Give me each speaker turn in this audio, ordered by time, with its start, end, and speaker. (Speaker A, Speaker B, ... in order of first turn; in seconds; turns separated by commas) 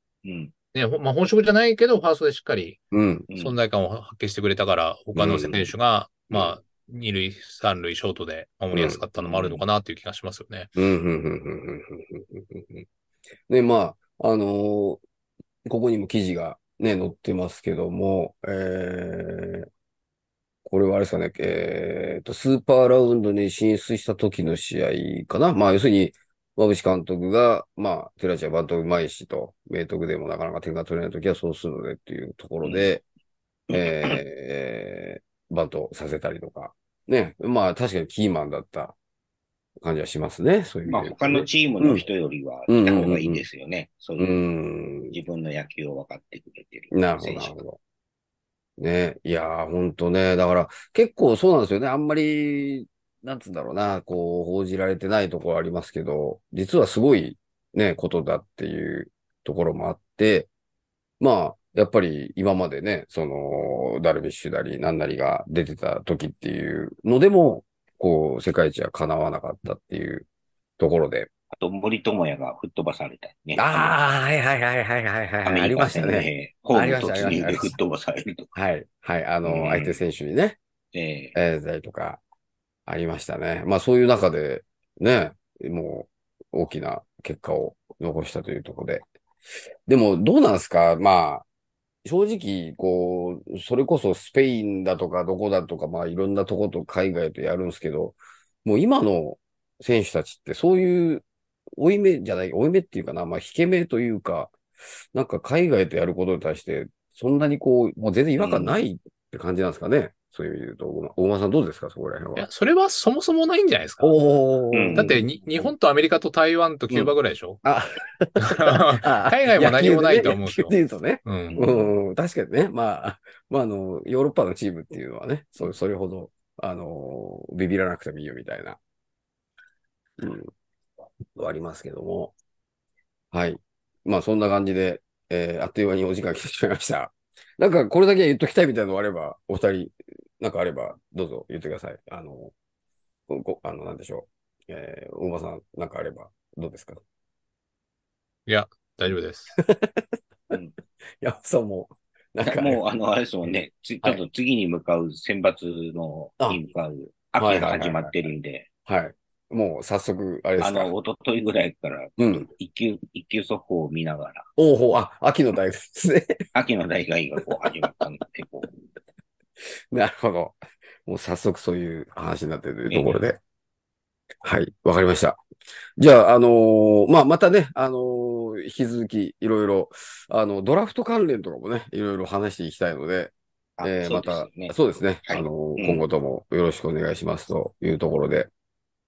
Speaker A: 0.2-0.5, Speaker B: 0.7-2.8, Speaker C: 2.9-3.3, Speaker A: 3.3-3.6, Speaker B: 3.4-10.7, Speaker C: 5.1-5.7, Speaker C: 8.7-9.0, Speaker A: 9.2-9.6, Speaker C: 10.8-12.8, Speaker C: 13.5-15.0, Speaker C: 15.6-19.6, Speaker C: 20.6-33.0, Speaker A: 32.6-32.9, Speaker A: 33.7-34.2, Speaker C: 33.7-39.0, Speaker C: 39.8-42.0, Speaker A: 40.9-44.3, Speaker C: 42.7-43.4, Speaker C: 44.2-45.2, Speaker A: 45.1-47.6, Speaker C: 46.9-47.8, Speaker C: 48.8-60.5, Speaker C: 61.2-70.2, Speaker C: 70.8-71.3, Speaker A: 71.5-74.0, Speaker C: 73.5-77.8, Speaker A: 75.4-78.5, Speaker C: 78.5-80.6, Speaker A: 79.4-80.1, Speaker A: 80.9-81.3, Speaker C: 81.3-82.2, Speaker C: 82.9-89.0, Speaker C: 89.9-91.4, Speaker C: 92.0-101.2, Speaker C: 101.8-104.5, Speaker C: 105.1-112.5, Speaker A: 108.4-108.8, Speaker B: 112.3-114.2, Speaker C: 114.0-115.7, Speaker A: 114.7-115.2, Speaker B: 114.9-117.6, Speaker C: 116.9-128.8, Speaker B: 118.4-121.6, Speaker A: 121.5-121.9, Speaker C: 130.2-130.5, Speaker C: 131.3-132.3, Speaker C: 133.3-142.5, Speaker C: 143.3-147.0, Speaker B: 148.5-149.6, Speaker C: 149.6-150.6, Speaker C: 151.2-152.8, Speaker A: 152.4-158.7, Speaker C: 157.4-158.2, Speaker C: 158.8-160.9, Speaker A: 160.6-164.5, Speaker C: 162.2-162.5, Speaker C: 164.6-166.4, Speaker A: 166.5-168.7, Speaker C: 167.6-168.1, Speaker C: 169.9-173.4, Speaker A: 172.9-173.2, Speaker C: 174.4-175.4, Speaker C: 176.0-188.5, Speaker A: 183.8-186.0